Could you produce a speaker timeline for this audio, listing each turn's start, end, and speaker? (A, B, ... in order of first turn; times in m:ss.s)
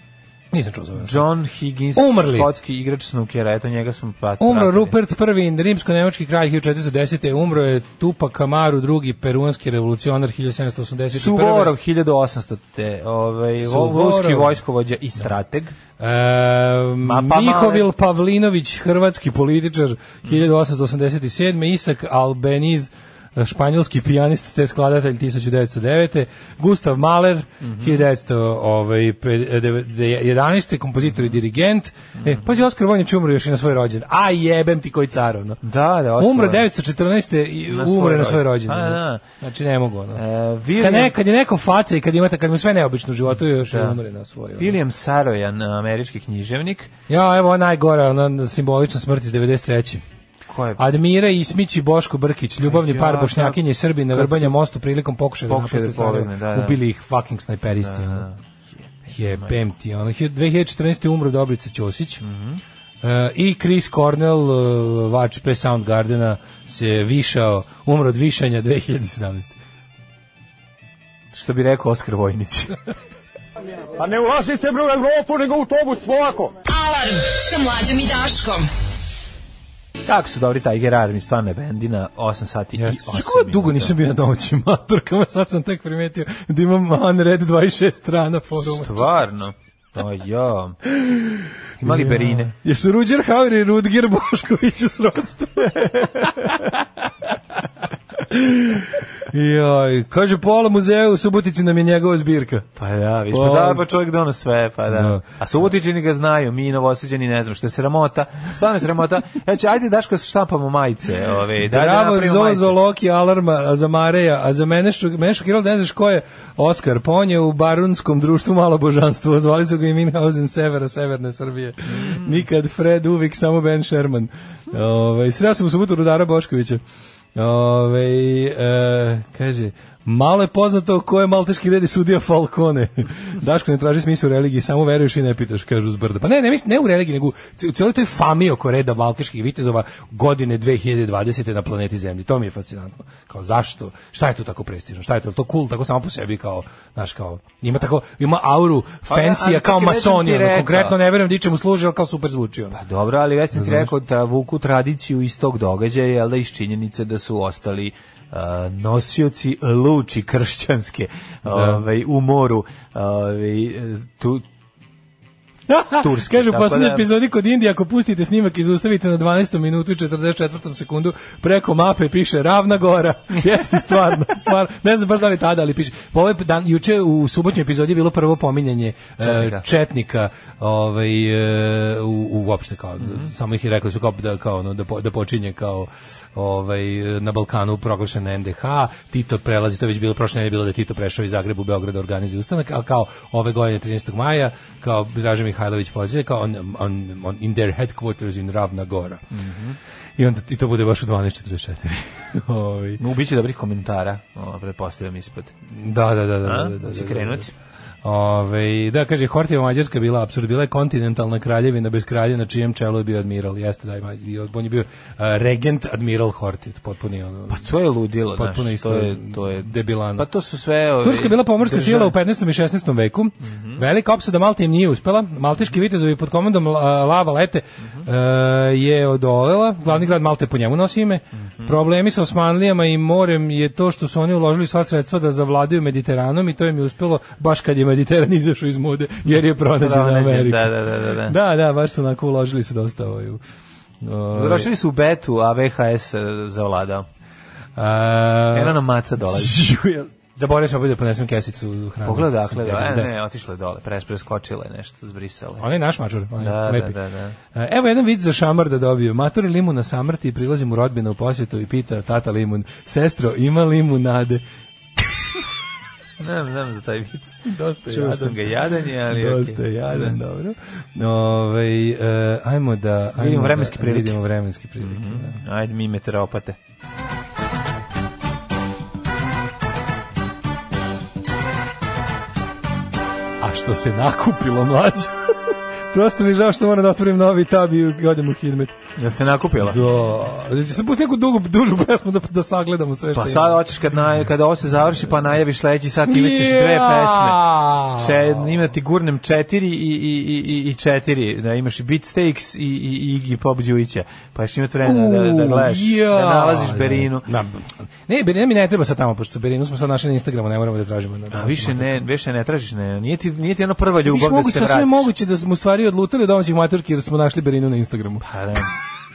0:00.5-0:01.2 A
0:01.0-0:05.0 B
0:01.9-0:02.5 A
0:04.4-0:11.7 A
0:11.1-0:15.7 B
0:13.6-0:14.6 A
0:16.0-0:35.6 A
0:17.0-0:17.8 B
0:27.6-0:28.0 B
0:32.2-0:32.5 B
0:35.6-0:36.6 B
0:36.2-0:40.2 A
0:37.7-0:39.2 B
0:40.1-0:41.1 B
0:40.8-0:44.8 A
0:43.5-0:44.0 B
0:44.6-0:46.9 B
0:47.1-0:50.0 A
0:50.5-0:50.8 B
0:50.8-0:58.2 A
0:52.6-0:54.6 B
0:55.5-0:56.8 B
0:57.7-0:59.6 B
0:59.1-1:02.2 A
1:02.2-1:02.6 B
1:03.0-1:09.5 A
1:11.3-1:12.8 B
1:14.0-1:16.5 C
1:16.6-1:18.7 D
1:20.0-1:23.9 B
1:22.8-1:29.1 A
1:28.6-1:30.8 B
1:31.0-1:36.7 A
1:31.8-1:32.5 B
1:38.2-1:42.6 A
1:42.8-1:52.8 B
1:43.3-1:43.8 A
1:44.9-1:45.3 A
1:51.6-2:06.8 A
2:01.8-2:02.4 B
2:07.3-2:32.8 A
2:29.1-2:31.0 B
2:32.7-2:44.4 B
2:33.5-2:33.9 A
2:41.5-2:41.8 A
2:45.7-3:19.2 A
2:45.8-2:47.0 B
2:59.2-2:59.6 B
3:03.0-3:03.3 B
3:19.3-3:19.8 B
3:20.2-3:23.0 A
3:23.0-3:25.5 B
3:25.7-3:27.5 A
3:26.4-3:27.5 B
3:28.0-3:37.7 A
3:37.5-3:42.2 B
3:38.2-3:40.3 A
3:41.0-4:03.4 A
3:43.4-3:43.8 B
3:59.8-4:01.4 B
4:04.0-4:04.7 A
4:04.3-4:07.1 B
4:07.8-4:13.1 A
4:08.5-4:09.6 B
4:12.0-4:15.6 B
4:15.6-4:17.0 A
4:16.4-4:17.4 B
4:17.5-4:24.4 A
4:26.2-4:30.2 B
4:27.4-4:35.4 A
4:33.2-4:34.2 B
4:34.8-4:36.6 B
4:43.4-4:45.1 A
4:45.9-4:48.8 A
4:49.0-4:49.8 B
4:49.6-4:53.6 A
4:53.1-5:07.3 B
4:56.0-4:58.6 A
5:04.8-5:12.0 A
5:11.3-5:15.1 B
5:14.0-5:18.3 A
5:18.2-5:18.7 B